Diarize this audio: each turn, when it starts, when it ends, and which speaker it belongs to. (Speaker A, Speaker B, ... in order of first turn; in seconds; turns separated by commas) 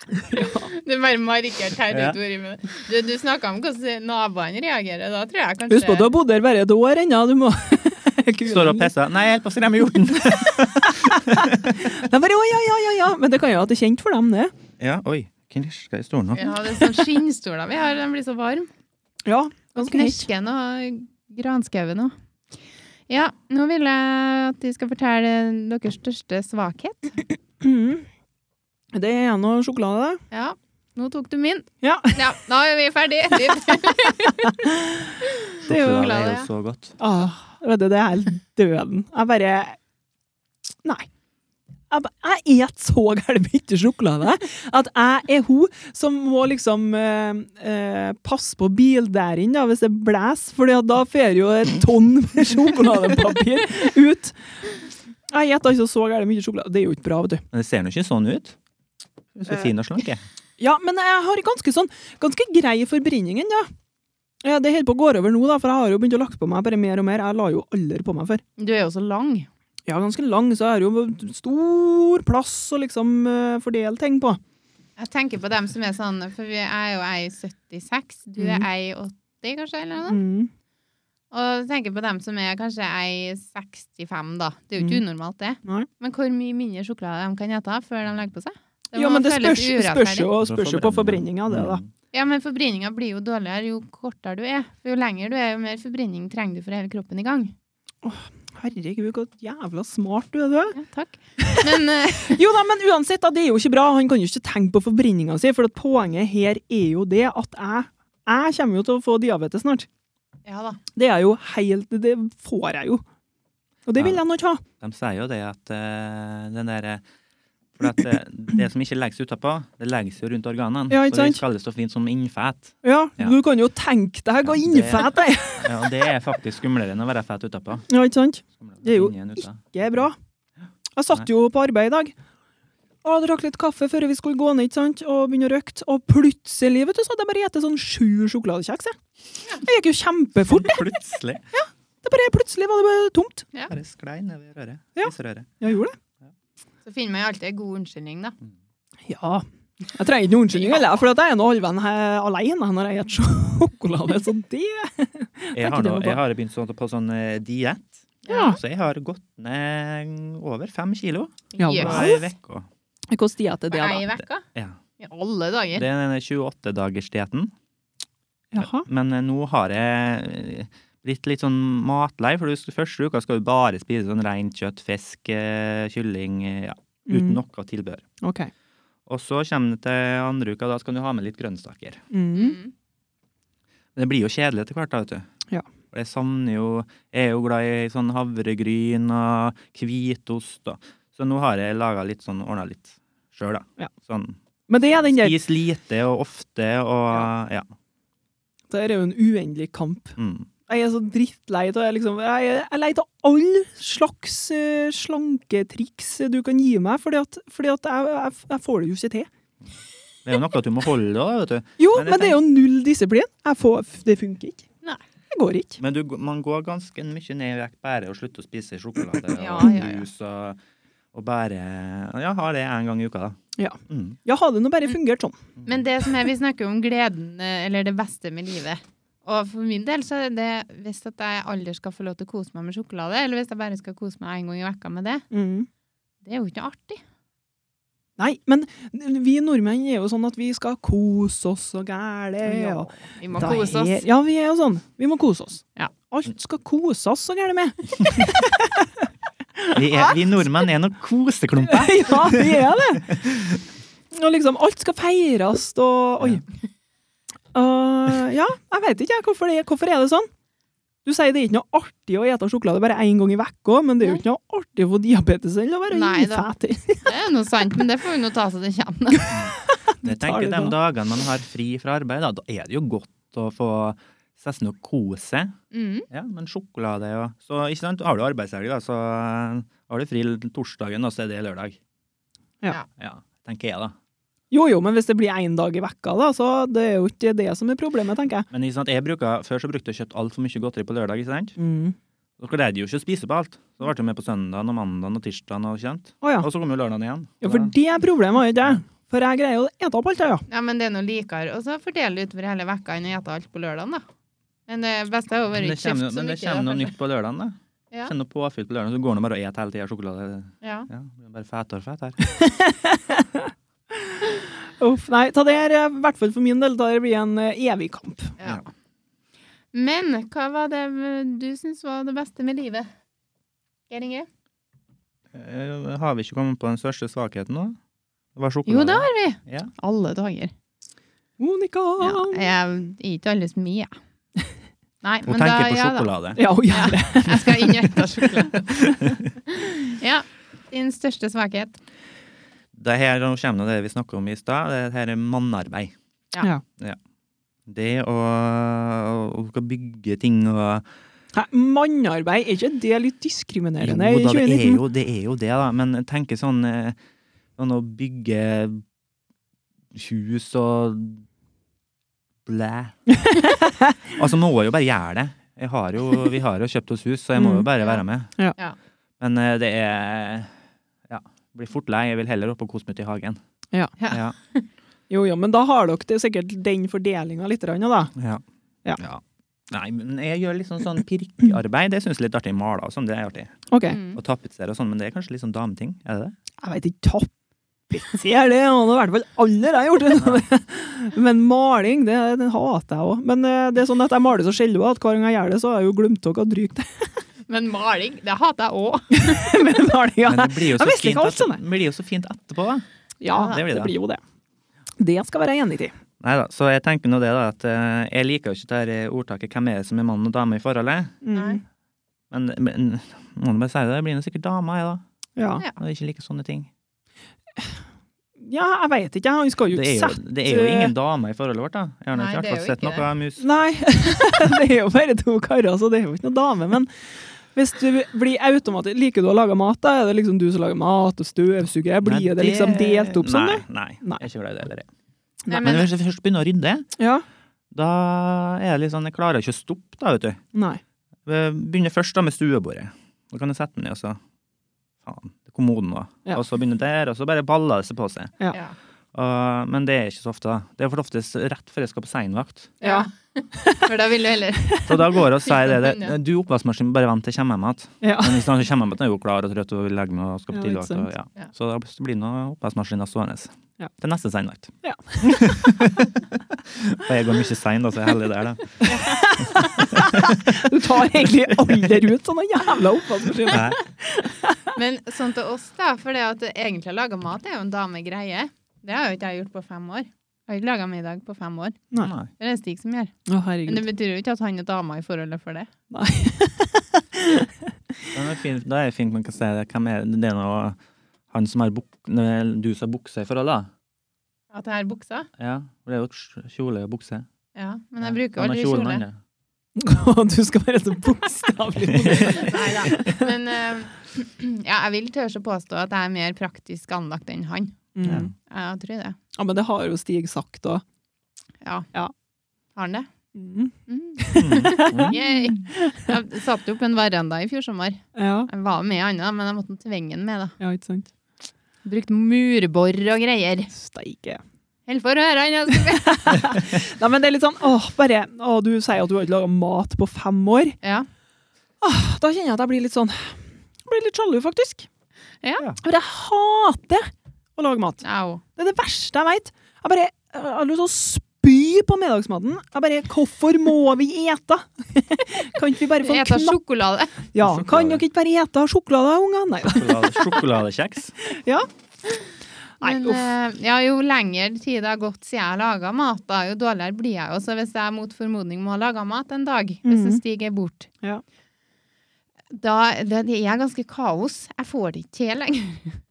Speaker A: 0.1-0.7, Speaker B: 0.4-6.1, Speaker C: 1.9-2.2, Speaker A: 5.7-8.9, Speaker C: 8.4-11.8, Speaker A: 10.6-14.5, Speaker C: 14.8-16.6, Speaker B: 16.3-18.7, Speaker A: 19.3-20.3, Speaker B: 19.7-22.1, Speaker B: 23.1-27.2, Speaker A: 27.6-28.1, Speaker A: 28.9-30.2, Speaker B: 30.3-34.6, Speaker A: 31.8-32.2, Speaker A: 34.4-35.1, Speaker B: 35.2-36.5, Speaker C: 35.6-37.0, Speaker A: 37.0-39.8, Speaker A: 41.9-54.4, Speaker A: 55.3-57.4, Speaker C: 57.5-58.6, Speaker C: 59.4-60.2, Speaker A: 60.6-63.7, Speaker A: 64.4-68.4, Speaker B: 68.6-69.5, Speaker A: 69.9-74.4, Speaker B: 75.0-80.2, Speaker A: 78.4-78.7, Speaker A: 80.1-80.5, Speaker B: 81.3-90.3, Speaker A: 88.9-91.8, Speaker C: 90.4-91.9, Speaker B: 92.1-97.5, Speaker A: 98.0-100.8, Speaker B: 100.7-102.4, Speaker A: 101.4-109.9, Speaker B: 110.5-110.8, Speaker A: 110.9-113.0, Speaker A: 113.9-114.6, Speaker C: 114.8-117.0, Speaker C: 117.8-123.3, Speaker A: 120.9-121.4, Speaker A: 122.8-125.9, Speaker C: 124.4-127.8, Speaker A: 127.9-130.2, Speaker C: 128.6-129.7, Speaker A: 130.9-132.1, Speaker A: 133.0-139.0, Speaker A: 139.6-140.9, Speaker C: 140.4-141.4, Speaker A: 141.6-143.5, Speaker C: 143.7-145.5, Speaker A: 144.9-145.9, Speaker B: 146.8-148.3, Speaker A: 149.1-156.2, Speaker C: 155.5-162.7, Speaker B: 158.2-158.6, Speaker A: 158.3-158.6, Speaker B: 161.5-162.1, Speaker A: 161.6-162.3, Speaker A: 163.1-164.1, Speaker B: 163.7-164.4, Speaker B: 165.0-165.8, Speaker C: 165.8-167.5, Speaker A: 168.5-168.8, Speaker C: 168.6-178.0, Speaker A: 177.1-177.4, Speaker A: 178.2-178.5, Speaker C: 179.1-182.0, Speaker A: 182.1-182.6, Speaker B: 182.3-182.7, Speaker C: 183.9-185.3, Speaker C: 185.9-194.4, Speaker A: 194.7-195.4, Speaker C: 195.0-197.7, Speaker A: 198.7-209.3, Speaker C: 200.2-200.5, Speaker C: 210.2-212.4, Speaker A: 211.8-214.7, Speaker A: 215.3-215.8, Speaker C: 215.8-220.6, Speaker B: 219.3-220.1, Speaker C: 221.1-224.2, Speaker A: 223.6-225.4, Speaker B: 225.6-235.2, Speaker A: 235.3-235.7, Speaker B: 236.2-237.0, Speaker A: 238.2-249.1, Speaker B: 242.4-244.1, Speaker A: 249.6-249.8, Speaker C: 249.7-253.6, Speaker A: 251.7-253.2, Speaker A: 254.1-256.4, Speaker A: 257.5-260.3, Speaker A: 261.1-267.1, Speaker B: 265.9-266.5, Speaker B: 267.1-269.4, Speaker A: 269.2-270.8, Speaker C: 269.3-275.6, Speaker B: 275.7-276.1, Speaker C: 276.1-281.8, Speaker C: 283.0-283.9, Speaker A: 284.5-288.5, Speaker C: 288.5-291.6, Speaker A: 291.6-291.9, Speaker C: 292.4-297.7, Speaker A: 296.2-296.5, Speaker A: 297.4-300.4, Speaker B: 300.5-304.0, Speaker B: 304.7-306.9, Speaker C: 305.6-312.2, Speaker B: 310.6-310.9, Speaker A: 312.2-313.5, Speaker A: 314.1-318.4, Speaker B: 318.4-318.7, Speaker B: 319.7-322.9, Speaker B: 323.9-324.3, Speaker C: 325.3-327.8, Speaker C: 328.4-329.7, Speaker B: 328.6-330.5, Speaker A: 331.4-332.5, Speaker B: 332.0-333.9, Speaker B: 335.0-336.1, Speaker C: 335.3-336.4, Speaker A: 336.4-337.9, Speaker B: 336.7-341.8, Speaker C: 338.8-339.1, Speaker C: 342.7-345.9, Speaker C: 347.7-350.9, Speaker A: 351.3-354.8, Speaker C: 353.8-357.0, Speaker C: 357.6-358.8, Speaker C: 359.9-361.2, Speaker C: 362.4-362.9, Speaker A: 363.3-363.8, Speaker C: 364.1-368.3, Speaker A: 367.4-367.7, Speaker C: 369.2-370.5, Speaker C: 371.1-373.4, Speaker B: 374.0-374.6, Speaker C: 374.1-374.4, Speaker A: 375.1-378.1, Speaker C: 378.2-378.4, Speaker C: 379.0-383.5, Speaker A: 383.7-384.0, Speaker B: 383.9-384.2, Speaker C: 384.1-386.4, Speaker A: 386.6-387.3, Speaker A: 387.9-397.1, Speaker B: 397.5-399.7, Speaker A: 399.1-401.6, Speaker C: 400.2-402.9, Speaker A: 403.2-404.2, Speaker B: 403.3-403.6, Speaker C: 403.4-403.9, Speaker A: 405.0-405.9, Speaker C: 406.2-411.1, Speaker A: 411.2-411.6, Speaker B: 411.3-411.6, Speaker C: 412.3-415.0, Speaker A: 415.4-415.6, Speaker C: 415.8-416.7, Speaker A: 418.4-420.9, Speaker C: 419.7-423.4, Speaker B: 422.1-423.1, Speaker A: 423.4-434.2, Speaker C: 432.0-434.9, Speaker B: 435.5-435.9, Speaker C: 435.5-436.9, Speaker A: 437.0-437.2, Speaker C: 437.7-440.4, Speaker A: 440.5-440.8, Speaker C: 441.3-444.2, Speaker C: 445.0-448.3, Speaker C: 449.1-452.7, Speaker B: 452.8-456.1, Speaker A: 452.8-453.9, Speaker C: 454.9-468.8, Speaker A: 458.0-458.4, Speaker A: 460.5-461.1, Speaker A: 464.8-465.7, Speaker A: 468.8-474.6, Speaker B: 468.9-469.3, Speaker C: 469.4-470.6, Speaker C: 471.5-471.8, Speaker C: 473.5-473.8, Speaker B: 474.7-481.8, Speaker C: 482.0-482.3, Speaker B: 482.4-483.1, Speaker A: 483.3-483.9, Speaker B: 483.6-485.7, Speaker A: 485.9-487.5, Speaker C: 488.1-490.8, Speaker C: 491.3-493.7, Speaker B: 494.5-495.3, Speaker C: 495.4-497.3, Speaker B: 497.6-499.0, Speaker C: 498.0-499.2, Speaker A: 499.8-503.3, Speaker C: 501.9-502.4, Speaker B: 502.3-507.8, Speaker A: 507.9-508.3, Speaker C: 508.0-508.3, Speaker B: 508.5-509.2, Speaker A: 509.4-510.8, Speaker B: 511.6-511.9, Speaker B: 512.7-513.1, Speaker A: 513.4-516.0, Speaker B: 513.9-520.6, Speaker C: 514.4-515.2, Speaker A: 518.1-518.5, Speaker A: 520.6-521.1, Speaker B: 521.9-523.7, Speaker A: 523.7-524.4, Speaker B: 524.9-526.6, Speaker A: 525.9-530.8, Speaker B: 530.8-531.1, Speaker A: 531.8-534.9, Speaker A: 535.8-538.0, Speaker B: 538.0-538.4, Speaker A: 538.6-546.6, Speaker B: 546.0-547.2, Speaker A: 547.3-550.4, Speaker C: 547.4-548.0, Speaker C: 549.7-551.1, Speaker A: 551.2-551.7, Speaker A: 552.8-553.3, Speaker B: 552.8-560.9, Speaker A: 559.9-560.2, Speaker B: 562.5-566.0